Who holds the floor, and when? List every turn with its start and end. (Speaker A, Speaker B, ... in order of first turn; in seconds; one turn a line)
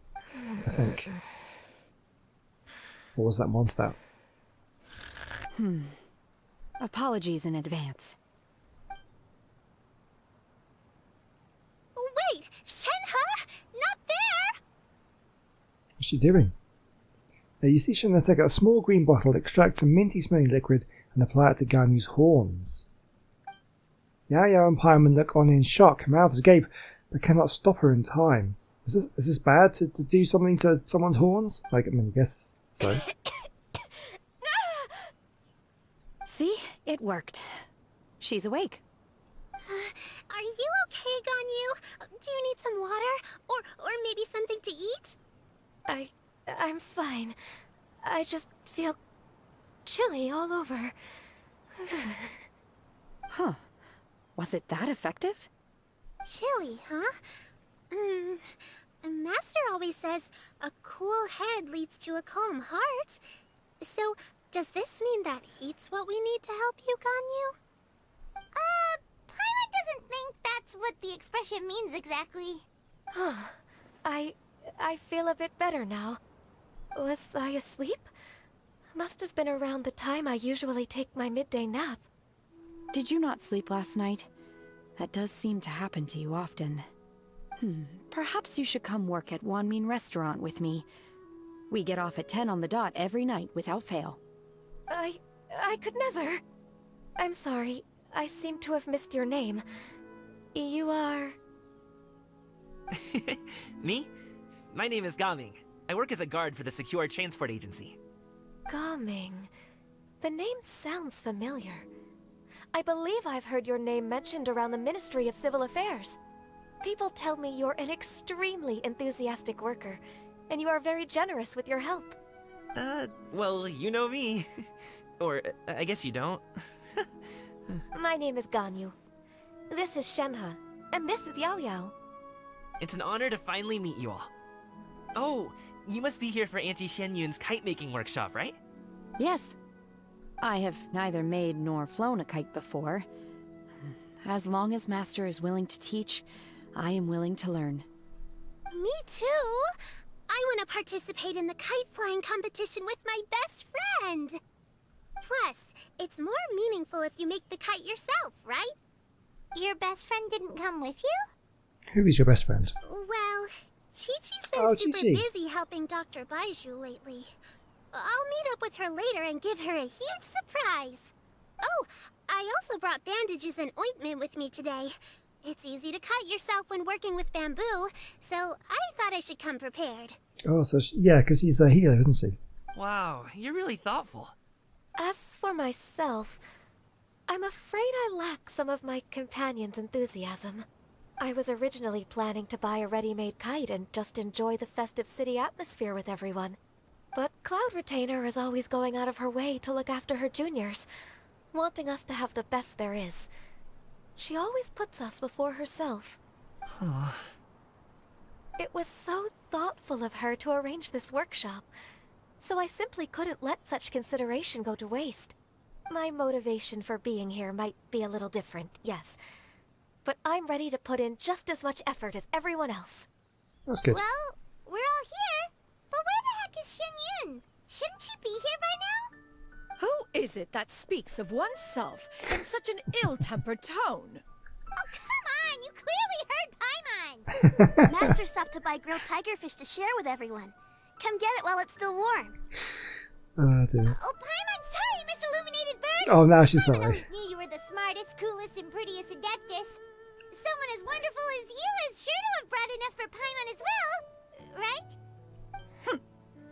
Speaker A: 0.6-1.1
Speaker A: 3.2-4.0
Speaker B: 5.5-6.0
Speaker B: 6.8-8.2
Speaker C: 12.0-14.6
Speaker A: 16.0-16.5
Speaker A: 17.6-22.9
Speaker A: 24.3-33.0
Speaker B: 36.2-37.6
Speaker B: 38.2-38.8
Speaker C: 39.6-45.2
Speaker D: 45.9-47.4
Speaker D: 48.0-49.0
Speaker D: 49.9-50.9
Speaker D: 51.8-52.4
Speaker B: 53.3-53.6
Speaker B: 54.4-55.5
Speaker C: 56.2-57.2
Speaker C: 57.9-63.2
Speaker C: 63.8-67.6
Speaker C: 68.5-72.7
Speaker D: 73.1-76.2
Speaker D: 77.0-78.1
Speaker D: 79.0-82.0
Speaker B: 82.9-84.3
Speaker B: 85.0-86.9
Speaker B: 87.6-90.9
Speaker B: 91.7-94.2
Speaker D: 94.9-96.4
Speaker D: 97.2-99.6
Speaker D: 100.5-101.4
Speaker E: 102.9-104.1
Speaker E: 104.7-108.0
Speaker D: 108.7-109.5
Speaker D: 110.2-111.8
Speaker D: 112.7-116.2
Speaker D: 116.8-122.2
Speaker E: 122.8-124.5
Speaker E: 125.2-127.1
Speaker D: 127.9-128.9
Speaker D: 129.7-131.9
Speaker E: 132.8-134.3
Speaker E: 135.2-138.6
Speaker B: 139.2-139.6
Speaker B: 140.4-143.1
Speaker B: 143.8-147.9
Speaker C: 148.7-149.7
Speaker C: 150.3-154.4
Speaker C: 155.2-158.8
Speaker C: 159.6-161.3
Speaker A: 161.9-162.7
Speaker C: 162.8-167.3
Speaker A: 164.5-165.3
Speaker C: 167.9-180.2
Speaker A: 180.5-182.4
Speaker E: 182.8-184.3
Speaker D: 185.0-186.4
Speaker D: 187.3-190.7
Speaker D: 191.2-196.6
Speaker D: 197.1-200.9
Speaker D: 201.5-203.3
Speaker D: 204.2-206.2
Speaker E: 206.7-207.3
Speaker D: 208.6-211.7
Speaker D: 212.4-215.3
Speaker D: 215.9-219.2
Speaker D: 220.1-223.1
Speaker A: 223.7-224.0
Speaker C: 223.9-229.1
Speaker F: 229.8-234.2
Speaker C: 234.7-237.4
Speaker A: 237.4-237.8
Speaker G: 237.9-242.4
Speaker A: 243.4-244.0
Speaker C: 243.8-249.8
Speaker A: 246.1-247.0
Speaker C: 250.3-255.0